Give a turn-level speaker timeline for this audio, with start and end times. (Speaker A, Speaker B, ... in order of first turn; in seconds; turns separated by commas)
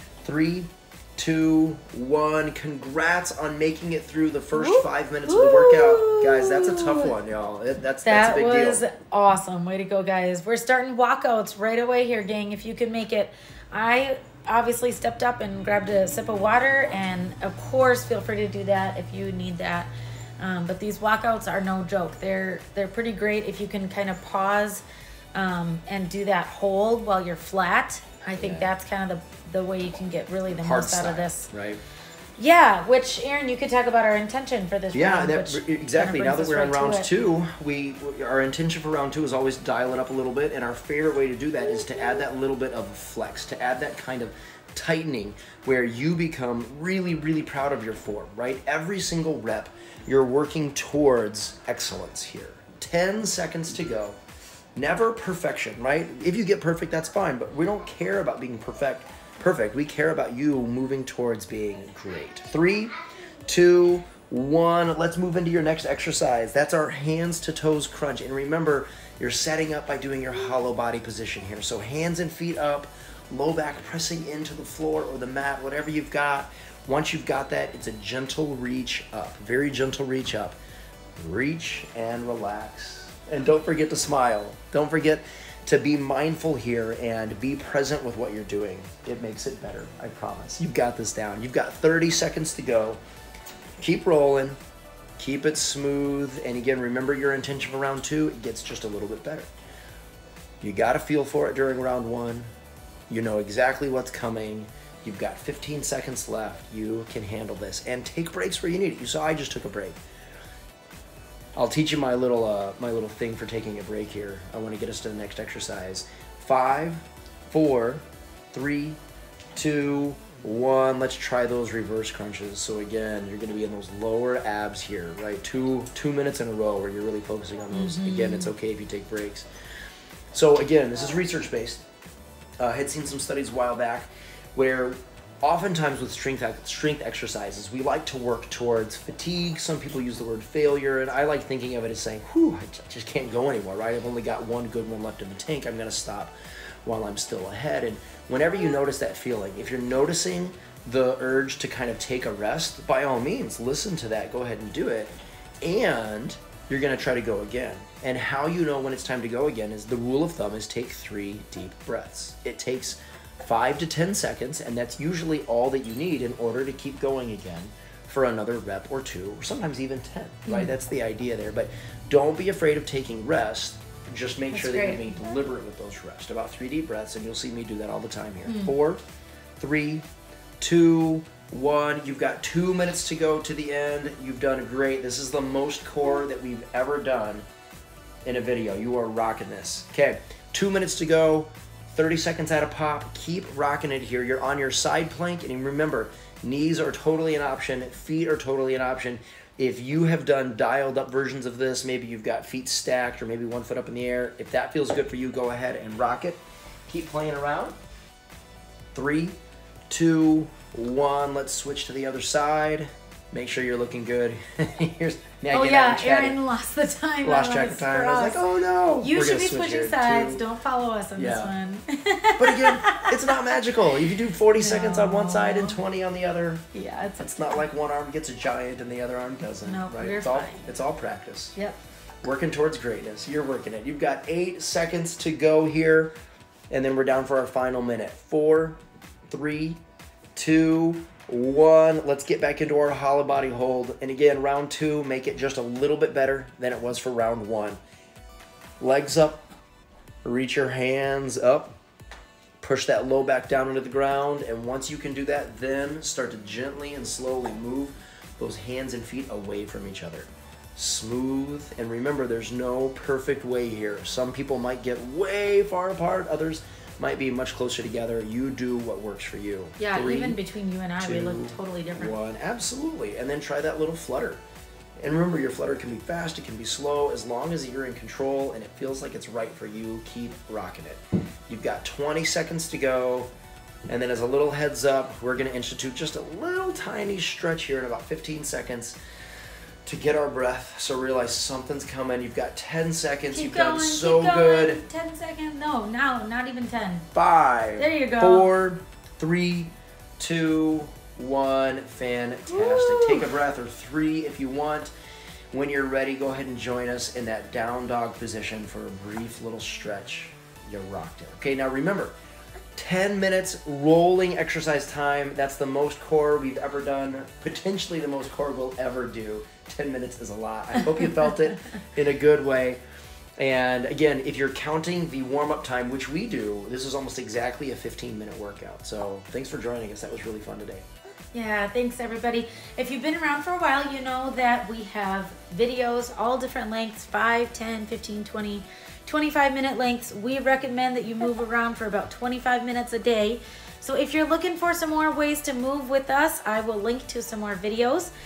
Speaker A: 0.2-8.8, Speaker B: 4.5-7.1, Speaker B: 8.0-31.5, Speaker A: 28.3-28.7, Speaker A: 30.5-31.8, Speaker B: 32.4-37.1, Speaker A: 34.9-54.2, Speaker A: 54.7-62.9, Speaker A: 63.5-80.5, Speaker A: 81.2-93.0, Speaker A: 93.8-94.6, Speaker A: 95.2-99.5, Speaker A: 100.6-102.5, Speaker A: 103.1-110.0, Speaker A: 111.5-119.0, Speaker A: 119.5-129.5, Speaker B: 127.7-128.5, Speaker A: 130.3-131.8, Speaker A: 132.6-146.3, Speaker A: 146.8-179.0, Speaker B: 170.5-170.7, Speaker B: 174.5-175.1, Speaker B: 178.5-178.7, Speaker A: 179.6-180.0, Speaker A: 180.6-187.4, Speaker A: 188.2-207.8, Speaker A: 208.9-209.3, Speaker A: 209.9-216.4, Speaker B: 215.5-218.4, Speaker A: 217.2-220.4, Speaker B: 219.0-223.3, Speaker A: 221.2-221.5, Speaker A: 222.4-226.6, Speaker B: 224.6-225.8, Speaker B: 226.7-227.6, Speaker A: 227.2-231.6, Speaker B: 229.6-230.6, Speaker A: 232.2-236.1, Speaker A: 236.7-239.8, Speaker A: 240.3-247.8, Speaker A: 248.8-249.4, Speaker A: 250.2-251.7, Speaker A: 252.6-270.4, Speaker B: 269.8-272.1, Speaker A: 271.0-274.4, Speaker A: 275.0-283.3, Speaker A: 283.9-289.0, Speaker A: 289.9-294.8, Speaker B: 293.3-297.1, Speaker A: 297.1-304.9, Speaker B: 297.8-298.5, Speaker B: 302.5-303.3, Speaker A: 305.5-312.1, Speaker A: 312.8-322.8, Speaker A: 323.4-330.8, Speaker B: 331.3-348.1